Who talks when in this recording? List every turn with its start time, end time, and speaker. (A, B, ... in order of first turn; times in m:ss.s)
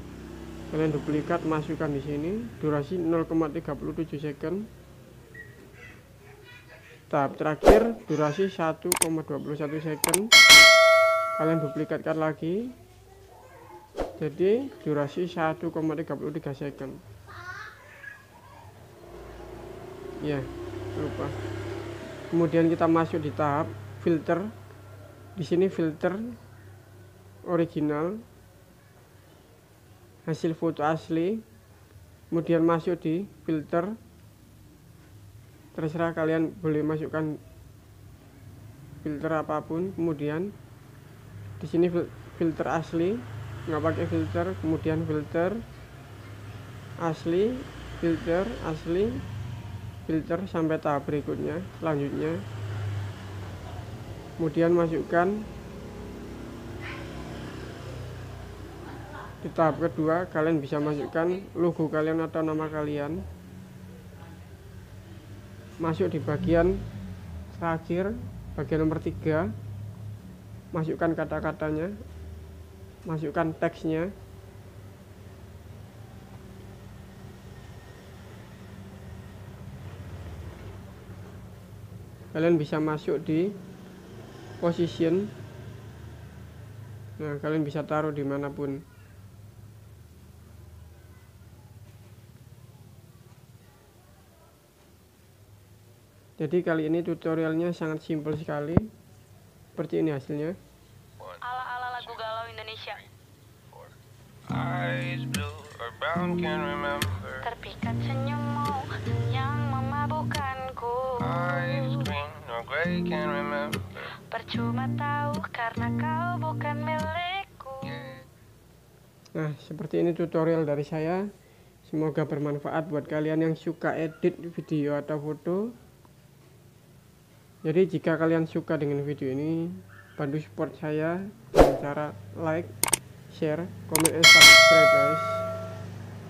0:00.7-0:04.7 A
0:07.1-0:10.3 A
0:11.4-0:12.8 A
0:14.2-0:17.0 A
0:20.2-0:21.4 A
0:22.3-0:24.5 A
0:25.4-0:26.3 A
0:27.4-0:28.2 A
0:30.2-0:31.4 A
0:32.3-0:34.0 A
0:35.7-0:37.4 A
0:39.0-0:40.5 A
0:41.6-0:45.6 A
0:47.0-0:49.2 A
0:50.0-0:52.4 A
0:54.4-0:55.5 A
0:59.4-1:03.2 A
1:05.8-1:06.8 A
1:07.5-1:09.5 A
1:10.7-1:11.9 A
1:13.0-1:14.1 A
1:22.3-1:23.6 A
1:24.6-1:25.3 A
1:27.2-1:28.8 A
1:36.4-1:38.9 A
1:39.8-1:40.6 A
1:41.4-1:43.0 B
1:44.4-1:47.5 C
1:47.4-1:52.0 B
1:51.2-1:54.1 C
1:54.2-1:58.1 B
1:57.9-1:58.2 C
1:59.3-2:01.2 A
2:01.9-2:05.8 A
2:07.6-2:12.7 A
2:13.3-2:15.4 A